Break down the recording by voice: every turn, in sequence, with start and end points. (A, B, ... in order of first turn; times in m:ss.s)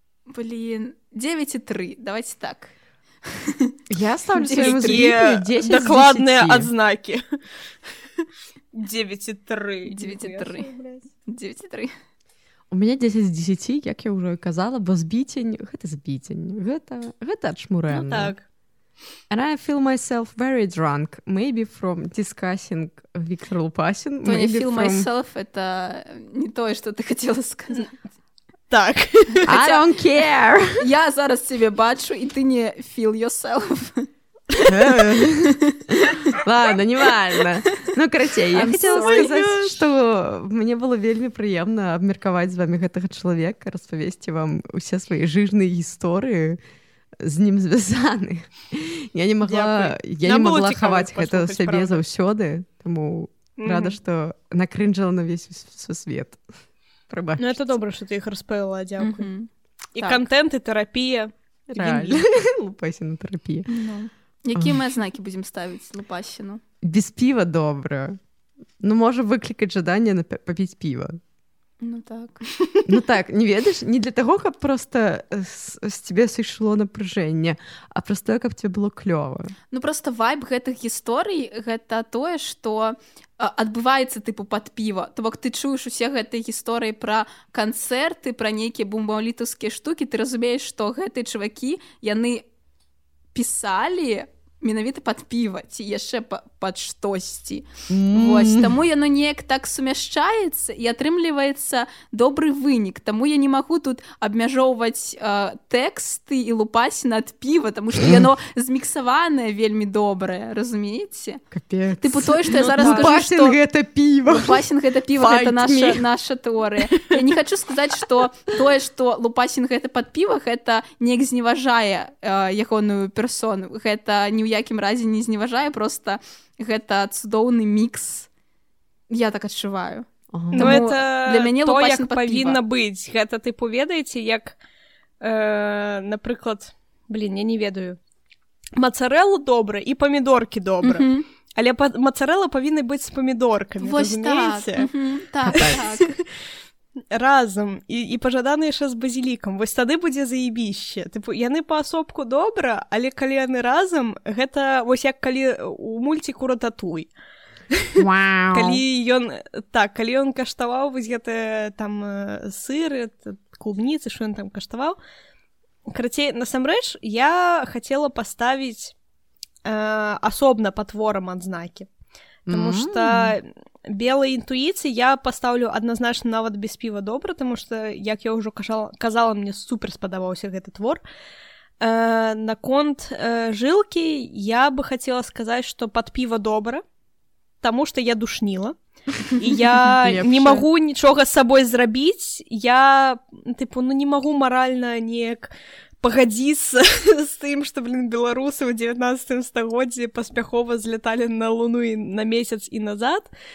0:00.3-0:02.7 A
0:03.2-0:03.7 A
0:03.9-0:06.7 B
0:04.4-0:05.0 A
0:04.5-0:07.4 C
0:08.2-0:11.0 C
0:09.8-0:10.7 A
0:11.2-0:11.9 A
0:12.7-0:18.3 B
0:17.9-0:18.4 C
0:19.3-0:25.1 B
0:24.2-0:27.9 A
0:28.7-0:29.5 C
0:29.4-0:29.8 A
0:29.5-0:30.8 B
0:30.8-0:34.1 A
0:34.7-0:46.6 B
0:35.2-0:35.5 A
0:36.1-0:36.4 A
0:38.5-0:39.7 C
0:38.8-0:39.3 A
0:47.2-0:56.4 B
0:49.4-0:52.0 C
0:53.6-0:54.0 C
0:57.1-0:57.8 B
0:57.4-0:59.3 C
0:59.0-1:00.2 A
0:59.9-1:02.2 C
1:01.7-1:03.7 B
1:03.7-1:06.6 A
1:06.8-1:08.2 B
1:08.8-1:11.2 B
1:11.8-1:12.5 A
1:12.8-1:19.5 B
1:19.7-1:32.4 A
1:33.3-1:51.4 A
1:37.9-1:38.8 B
1:51.5-1:54.6 B
1:52.0-1:53.6 A
1:52.6-1:53.1 C
1:54.2-2:08.3 A
1:55.2-1:56.0 B
2:09.1-2:12.6 A
2:10.3-2:10.8 B
2:10.5-2:14.6 C
2:15.2-2:18.0 C
2:18.8-2:24.9 C
2:20.8-2:21.2 A
2:23.8-2:26.1 A
2:25.4-2:25.8 B
2:25.6-2:26.2 C
2:27.1-2:37.1 C
2:37.7-2:45.0 C
2:38.0-2:38.8 B
2:45.9-2:48.9 C
2:49.6-2:51.9 C
2:52.4-3:01.0 C
2:52.5-2:53.4 B
3:01.8-3:06.8 C
3:07.6-3:08.8 C
3:09.4-3:15.5 C
3:10.0-3:10.6 B
3:16.0-3:23.3 C